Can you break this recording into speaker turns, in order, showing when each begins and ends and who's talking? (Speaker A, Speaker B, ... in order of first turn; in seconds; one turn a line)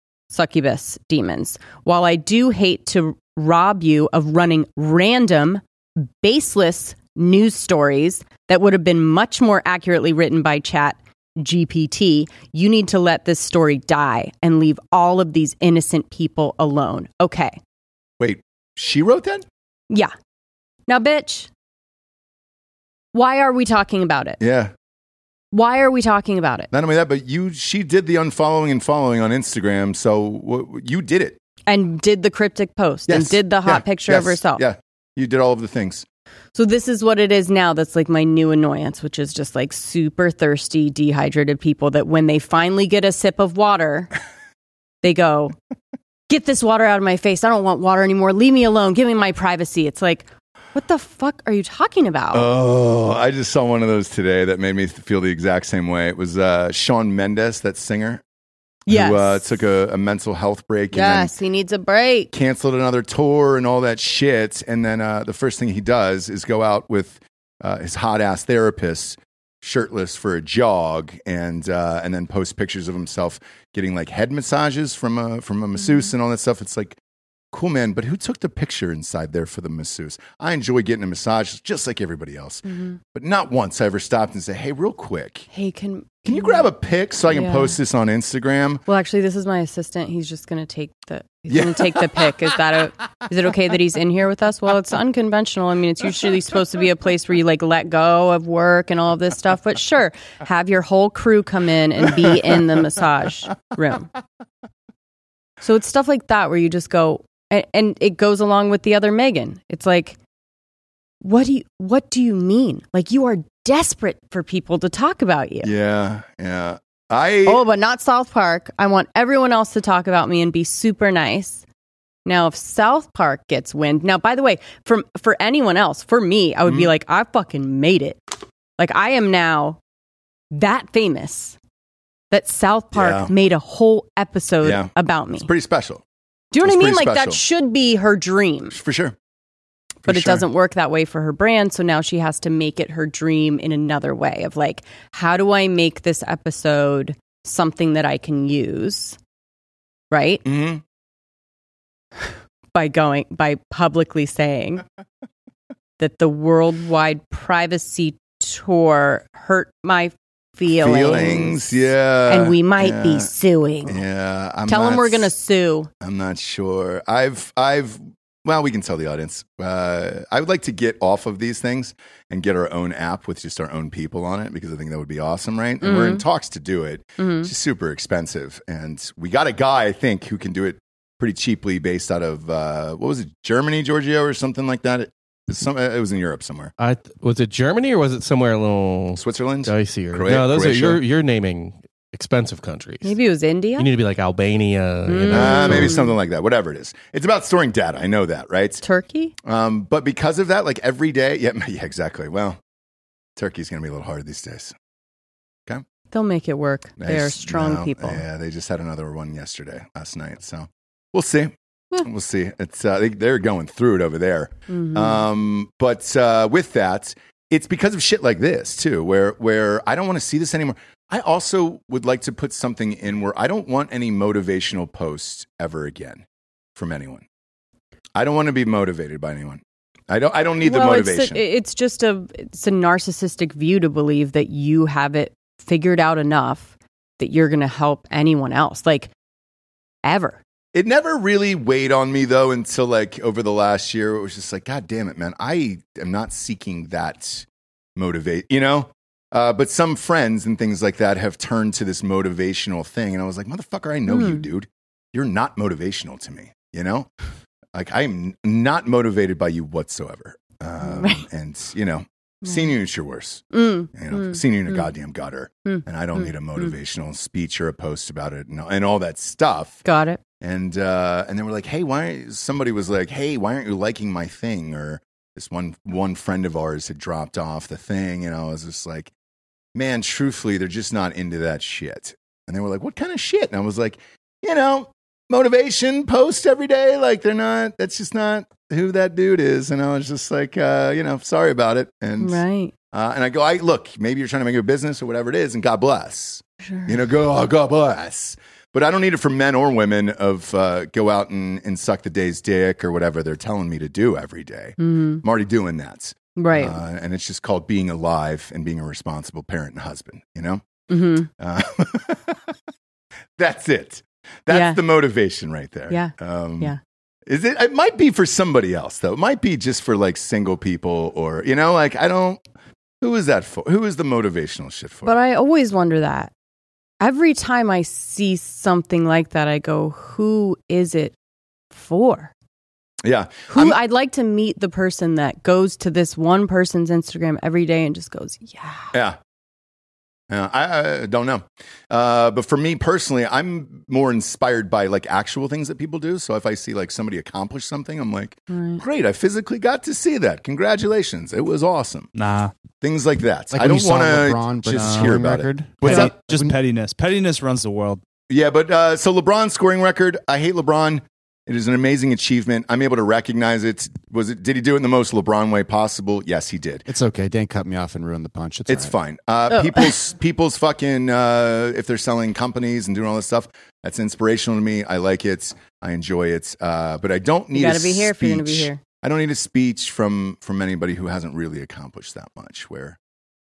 Speaker A: 0.3-17.6
Speaker B: 18.2-19.4
Speaker A: 20.9-21.5
Speaker A: 23.1-24.4
Speaker B: 24.4-24.7
Speaker A: 25.5-26.7
Speaker B: 26.7-31.4
Speaker A: 31.7-34.6
Speaker B: 33.1-36.0
Speaker A: 36.5-44.1
Speaker A: 45.0-45.5
Speaker A: 46.3-52.5
Speaker B: 52.3-58.2
Speaker A: 58.9-59.6
Speaker B: 58.9-61.3
Speaker A: 60.9-62.3
Speaker B: 62.3-77.0
Speaker B: 77.5-85.5
Speaker A: 82.6-83.0
Speaker A: 85.5-86.7
Speaker B: 86.3-88.8
Speaker A: 87.3-87.8
Speaker A: 88.9-104.1
Speaker B: 91.5-92.3
Speaker A: 105.6-110.2
Speaker A: 111.2-115.7
Speaker B: 115.6-117.6
Speaker A: 117.4-121.6
Speaker A: 122.2-128.2
Speaker A: 128.8-129.8
Speaker A: 130.5-131.6
Speaker A: 132.3-135.5
Speaker B: 132.9-133.3
Speaker B: 134.6-136.0
Speaker A: 136.5-138.8
Speaker B: 136.6-137.4
Speaker B: 138.7-139.1
Speaker B: 140.1-140.4
Speaker A: 140.1-149.2
Speaker A: 150.1-150.4
Speaker B: 150.4-150.8
Speaker A: 152.7-154.8
Speaker A: 156.0-164.0
Speaker B: 160.7-163.3
Speaker B: 163.8-165.3
Speaker A: 164.7-165.9
Speaker B: 166.0-186.7
Speaker A: 175.8-176.2
Speaker A: 177.2-177.5
Speaker C: 186.8-193.1
Speaker B: 189.2-191.0
Speaker A: 193.0-193.9
Speaker C: 193.8-196.0
Speaker A: 195.1-196.1
Speaker B: 195.3-198.8
Speaker A: 198.8-199.3
Speaker B: 199.4-202.6
Speaker B: 203.4-204.8
Speaker A: 206.1-208.2
Speaker B: 207.0-226.2
Speaker A: 214.7-215.2
Speaker B: 226.8-227.2
Speaker B: 228.1-231.4
Speaker A: 230.6-239.1
Speaker A: 240.0-240.4
Speaker B: 240.7-257.1
Speaker A: 254.1-254.4
Speaker B: 257.7-269.9
Speaker A: 260.8-261.2
Speaker A: 263.5-264.9
Speaker A: 265.6-266.7
Speaker A: 269.9-270.2
Speaker B: 270.4-279.1
Speaker B: 279.8-310.6
Speaker A: 292.2-292.7
Speaker A: 296.6-296.9
Speaker A: 304.8-305.2
Speaker A: 306.4-306.8
Speaker A: 310.9-311.3
Speaker B: 311.4-312.5
Speaker B: 313.4-316.8
Speaker A: 314.5-314.8
Speaker A: 315.9-316.8
Speaker B: 317.3-322.4
Speaker B: 323.0-325.1
Speaker A: 325.1-326.3
Speaker A: 327.0-331.1
Speaker A: 331.7-332.3
Speaker B: 333.0-333.8
Speaker A: 333.5-338.9
Speaker B: 338.9-339.2
Speaker B: 340.3-352.1
Speaker A: 348.5-348.8
Speaker D: 352.1-352.5
Speaker B: 352.8-356.1
Speaker E: 353.5-356.6
Speaker D: 354.7-355.2
Speaker D: 355.8-358.0
Speaker B: 358.3-366.9
Speaker E: 366.9-368.9
Speaker B: 368.7-383.0
Speaker A: 369.5-369.9
Speaker A: 377.5-378.8